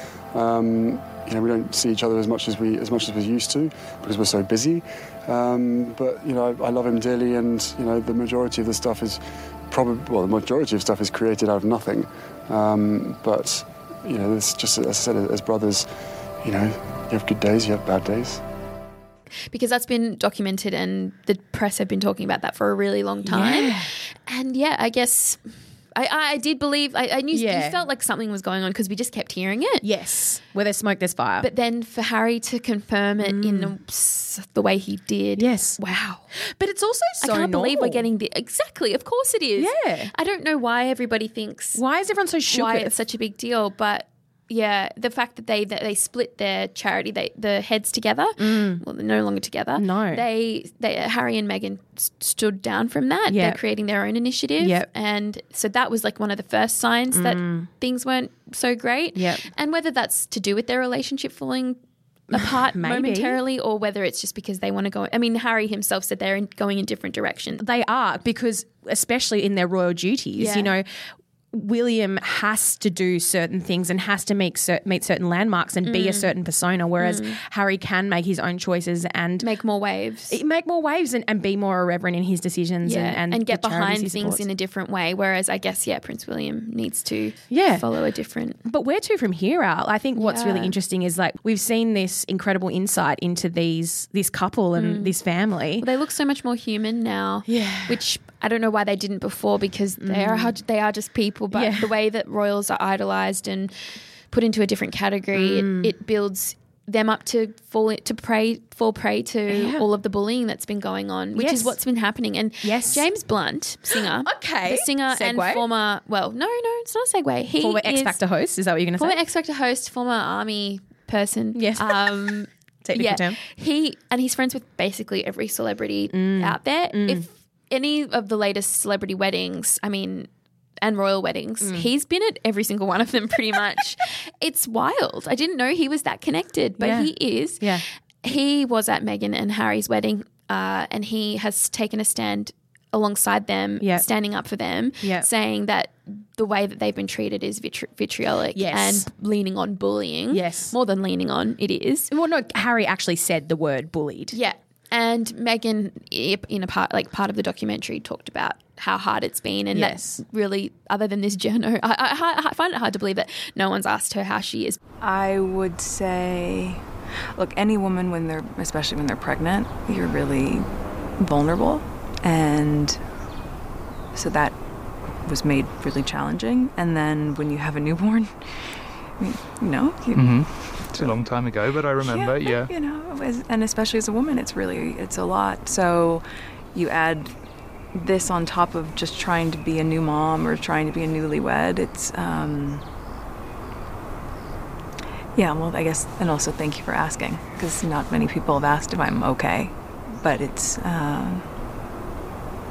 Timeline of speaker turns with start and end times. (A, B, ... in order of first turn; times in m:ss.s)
0:00.3-0:15.9 A
0:16.4-0:18.4 A
0:19.5-0:25.4 B
0:23.2-0:23.9 C
0:25.9-0:29.8 B
0:27.3-0:27.8 C
0:29.8-0:31.5 C
0:31.4-0:36.3 B
0:33.2-0:33.7 C
0:35.4-0:35.8 C
0:36.4-0:38.0 C
0:37.2-0:41.8 B
0:39.6-0:40.1 C
0:41.7-0:42.9 C
0:42.5-1:01.8 B
0:48.4-0:48.8 C
0:49.8-0:50.2 C
0:53.3-0:53.6 C
0:54.6-0:54.9 C
0:57.1-0:57.7 C
0:59.1-0:59.4 C
1:02.3-1:07.6 B
1:02.3-1:03.4 C
1:07.6-1:10.9 C
1:10.4-1:10.7 B
1:11.5-1:19.5 C
1:15.8-1:16.3 B
1:17.0-1:17.4 B
1:19.4-1:20.4 B
1:20.3-1:24.4 C
1:22.8-1:28.6 B
1:27.5-1:27.8 C
1:28.6-1:35.8 C
1:30.2-1:30.7 B
1:34.8-1:35.1 B
1:35.8-1:43.8 B
1:37.5-1:38.0 C
1:40.0-1:40.5 C
1:41.5-1:42.0 C
1:44.3-1:58.2 B
1:45.3-1:45.9 C
1:49.5-1:49.8 C
1:51.3-1:51.8 C
1:52.6-1:53.0 C
1:53.9-1:55.6 C
1:57.6-1:59.2 C
1:59.0-2:10.3 B
2:01.5-2:02.3 C
2:02.8-2:03.4 C
2:06.1-2:07.2 C
2:10.8-2:32.1 B
2:11.6-2:11.9 C
2:16.8-2:17.8 C
2:25.0-2:25.3 C
2:28.5-2:29.1 C
2:30.3-2:30.7 C
2:32.1-2:34.4 C
2:34.3-2:44.8 B
2:39.7-2:40.2 C
2:45.0-2:46.8 D
2:47.4-2:53.0 D
2:54.1-2:54.6 D
2:55.2-2:58.4 D
2:59.2-3:01.2 D
3:00.1-3:02.7 E
3:01.9-3:07.3 D
3:07.9-3:12.8 D
3:15.3-3:21.4 D